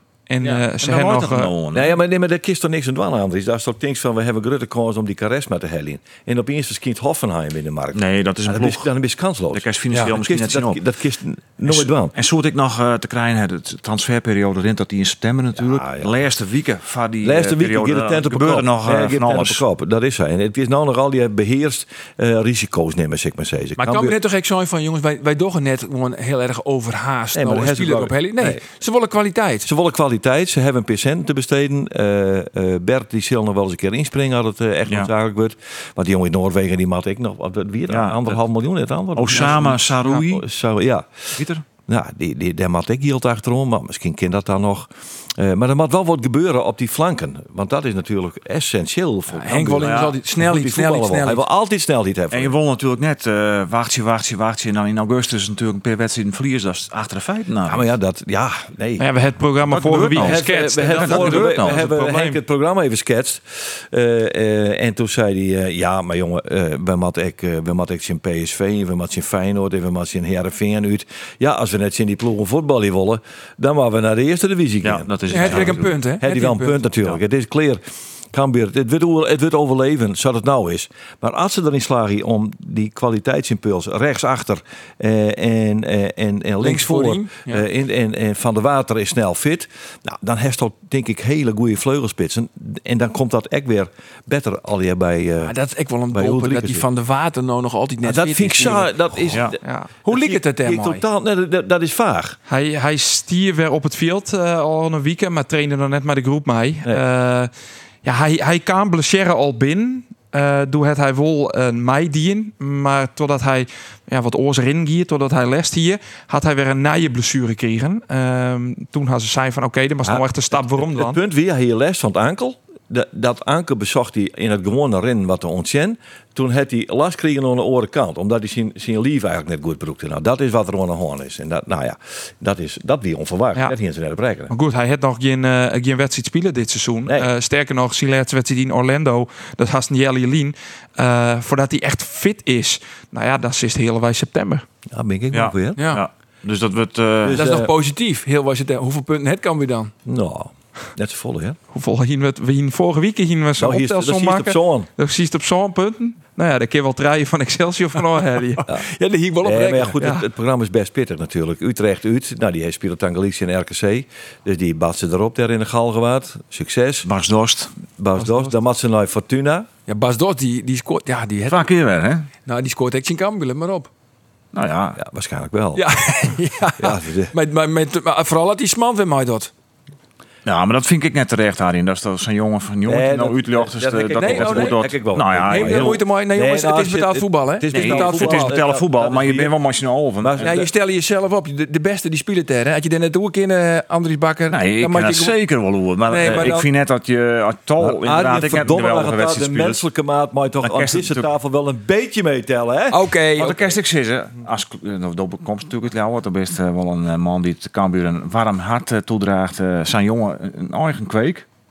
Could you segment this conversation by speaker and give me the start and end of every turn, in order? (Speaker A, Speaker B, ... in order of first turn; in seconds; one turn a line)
Speaker A: 0.3-1.5
Speaker B: 0.8-1.9
Speaker C: 1.7-12.1
Speaker B: 7.9-8.9
Speaker B: 9.5-10.8
Speaker B: 11.7-19.6
Speaker C: 15.6-16.1
Speaker C: 17.2-24.1
Speaker D: 23.8-29.7
Speaker C: 27.3-28.6
Speaker C: 29.6-52.5
Speaker B: 37.9-38.4
Speaker B: 39.1-40.5
Speaker B: 41.4-41.6
Speaker D: 49.4-51.4
Speaker B: 49.8-50.1
Speaker B: 52.3-57.8
Speaker C: 57.6-59.0
Speaker A: 59.0-62.4
Speaker B: 59.6-61.8
Speaker C: 60.1-95.6
Speaker B: 74.8-76.0
Speaker D: 75.3-76.8
Speaker D: 86.6-87.6
Speaker D: 95.5-98.9
Speaker C: 96.1-96.8
Speaker C: 98.0-102.4
Speaker A: 99.6-99.9
Speaker D: 100.0-101.0
Speaker A: 102.5-107.5
Speaker A: 108.0-121.2
Speaker C: 120.0-134.5
Speaker A: 134.5-144.7
Speaker C: 144.9-145.9
Speaker B: 145.3-147.4
Speaker D: 145.8-146.0
Speaker C: 147.2-147.7
Speaker D: 147.3-149.9
Speaker C: 150.0-151.6
Speaker A: 151.7-158.6
Speaker C: 153.6-154.9
Speaker D: 158.9-159.9
Speaker C: 159.4-167.1
Speaker B: 167.0-167.8
Speaker C: 168.0-169.7
Speaker D: 169.9-171.7
Speaker B: 171.5-172.3
Speaker D: 172.4-173.9
Speaker B: 174.5-175.0
Speaker C: 174.9-175.9
Speaker D: 175.7-179.5
Speaker C: 176.8-177.3
Speaker B: 180.4-186.0
Speaker C: 182.8-189.5
Speaker D: 184.2-184.8
Speaker D: 185.5-188.5
Speaker B: 187.7-190.5
Speaker C: 190.2-190.7
Speaker D: 190.4-195.3
Speaker B: 194.5-199.8
Speaker D: 196.1-196.6
Speaker C: 196.2-196.6
Speaker C: 197.8-203.5
Speaker B: 200.6-201.3
Speaker D: 202.9-203.6
Speaker B: 203.3-211.4